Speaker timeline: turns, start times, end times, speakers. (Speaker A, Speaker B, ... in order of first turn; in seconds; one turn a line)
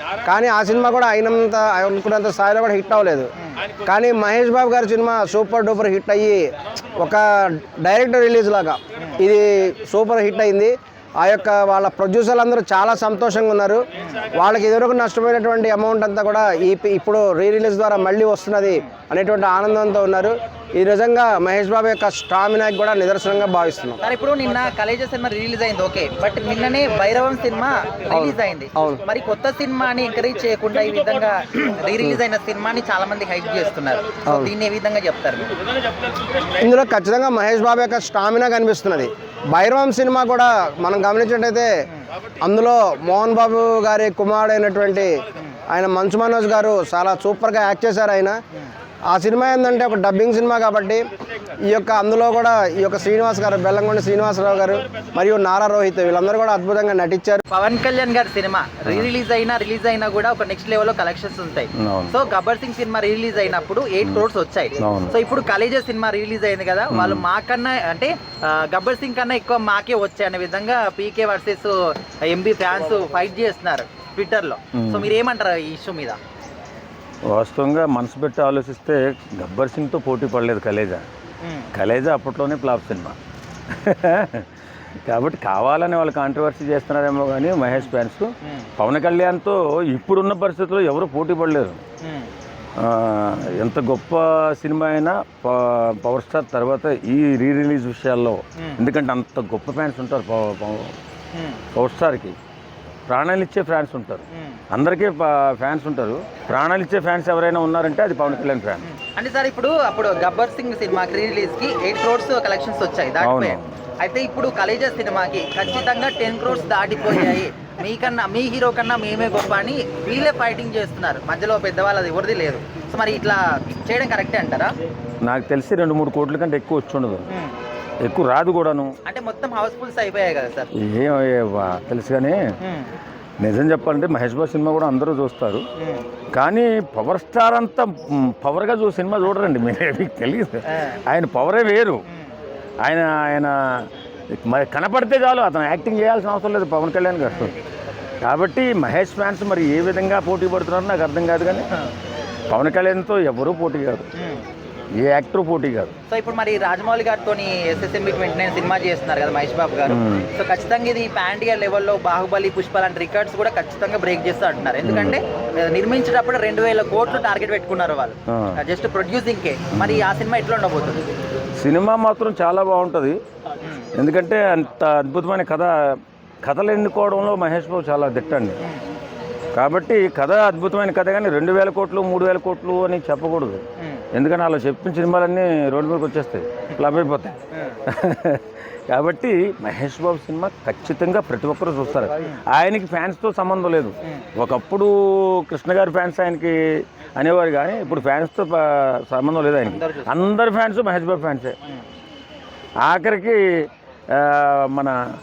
Speaker A: 0.2-3.3
Speaker A: 3.9-6.5
Speaker A: 7.0-13.8
Speaker B: 14.0-14.3
Speaker A: 14.3-24.0
Speaker B: 24.0-35.6
Speaker A: 28.1-29.0
Speaker A: 34.3-34.5
Speaker A: 36.6-41.7
Speaker A: 42.4-48.4
Speaker A: 49.1-51.0
Speaker A: 51.7-57.4
Speaker B: 57.5-71.7
Speaker C: 61.8-62.1
Speaker C: 64.8-65.2
Speaker C: 66.9-67.2
Speaker B: 72.2-76.2
Speaker C: 74.8-75.2
Speaker C: 77.3-81.0
Speaker B: 81.4-81.7
Speaker C: 81.7-83.2
Speaker C: 83.7-91.8
Speaker B: 92.0-92.3
Speaker C: 92.8-100.9
Speaker B: 98.6-98.8
Speaker B: 101.3-101.6
Speaker C: 101.7-102.3
Speaker C: 103.1-108.8
Speaker B: 104.3-104.6
Speaker B: 108.8-124.7
Speaker C: 113.2-113.7
Speaker C: 125.2-127.3
Speaker C: 128.0-128.9
Speaker B: 129.1-130.7
Speaker C: 130.8-132.4
Speaker B: 132.6-132.9
Speaker C: 133.4-135.7
Speaker B: 135.8-136.1
Speaker C: 136.3-142.0
Speaker B: 140.7-141.0
Speaker B: 142.1-142.3
Speaker C: 142.8-147.5
Speaker B: 147.3-147.5
Speaker C: 148.2-151.7
Speaker C: 152.5-154.1
Speaker B: 154.2-154.4
Speaker C: 154.9-155.9
Speaker B: 156.1-171.0
Speaker C: 159.9-160.3
Speaker C: 164.8-165.2
Speaker C: 168.3-168.6
Speaker C: 169.7-170.1
Speaker C: 171.6-173.2
Speaker C: 173.9-175.7
Speaker C: 176.4-178.6
Speaker C: 179.5-201.6
Speaker B: 199.6-200.2
Speaker C: 202.8-205.0